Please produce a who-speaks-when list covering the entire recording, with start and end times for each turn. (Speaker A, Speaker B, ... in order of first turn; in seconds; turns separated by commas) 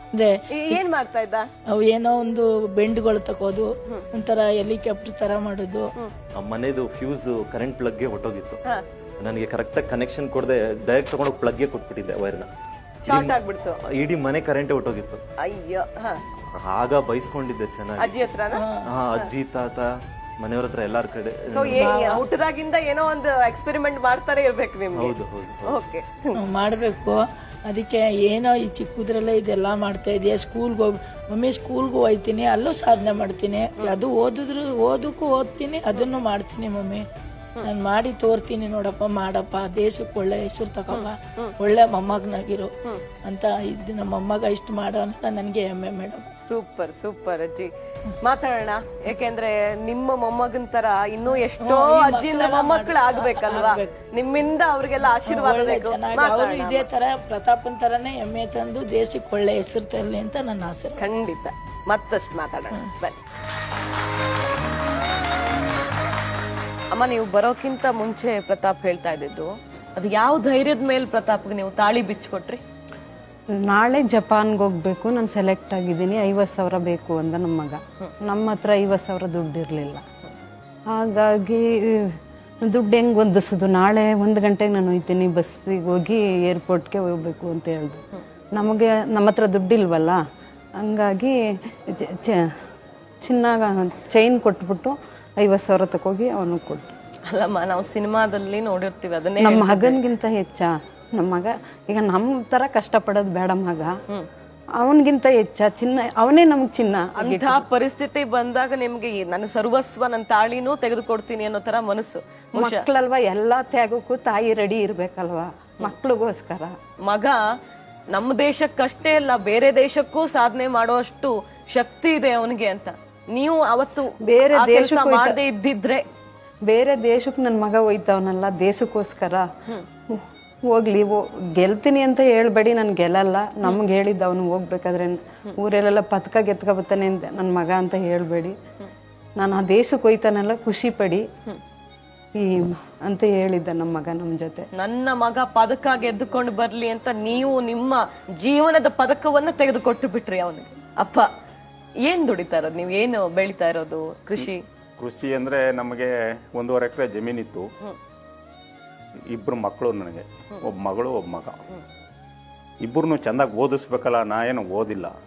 Speaker A: 0.5-1.5, Speaker B: 1.8-5.9, Speaker C: 6.3-8.6, Speaker C: 9.2-12.5, Speaker A: 13.1-13.8, Speaker C: 13.1-15.2, Speaker A: 15.4-16.2, Speaker C: 16.5-18.3, Speaker A: 18.0-18.6, Speaker C: 18.8-21.9, Speaker A: 21.5-25.1, Speaker B: 21.6-22.2, Speaker C: 24.9-25.8, Speaker A: 25.7-26.4, Speaker B: 26.4-37.0, Speaker B: 37.7-42.7, Speaker A: 40.9-41.5, Speaker B: 43.3-46.2, Speaker A: 46.5-47.7, Speaker A: 48.2-56.9, Speaker B: 51.6-53.9, Speaker B: 55.3-61.0, Speaker A: 61.0-63.2, Speaker A: 66.9-72.6, Speaker D: 73.7-80.0, Speaker D: 80.9-82.1, Speaker D: 82.6-88.0, Speaker D: 88.5-90.2, Speaker D: 90.8-91.3, Speaker D: 92.1-92.4, Speaker D: 93.2-96.9, Speaker A: 97.3-100.0, Speaker D: 99.4-103.9, Speaker D: 104.8-107.6, Speaker A: 107.2-112.8, Speaker D: 112.6-116.7, Speaker A: 117.0-117.4, Speaker A: 118.1-126.0, Speaker D: 124.3-125.4, Speaker D: 126.7-129.4, Speaker D: 130.7-138.6, Speaker D: 139.4-141.2, Speaker D: 142.4-144.6, Speaker A: 144.7-151.3, Speaker A: 152.0-154.6, Speaker E: 155.0-157.7, Speaker E: 159.3-161.6, Speaker E: 162.8-165.1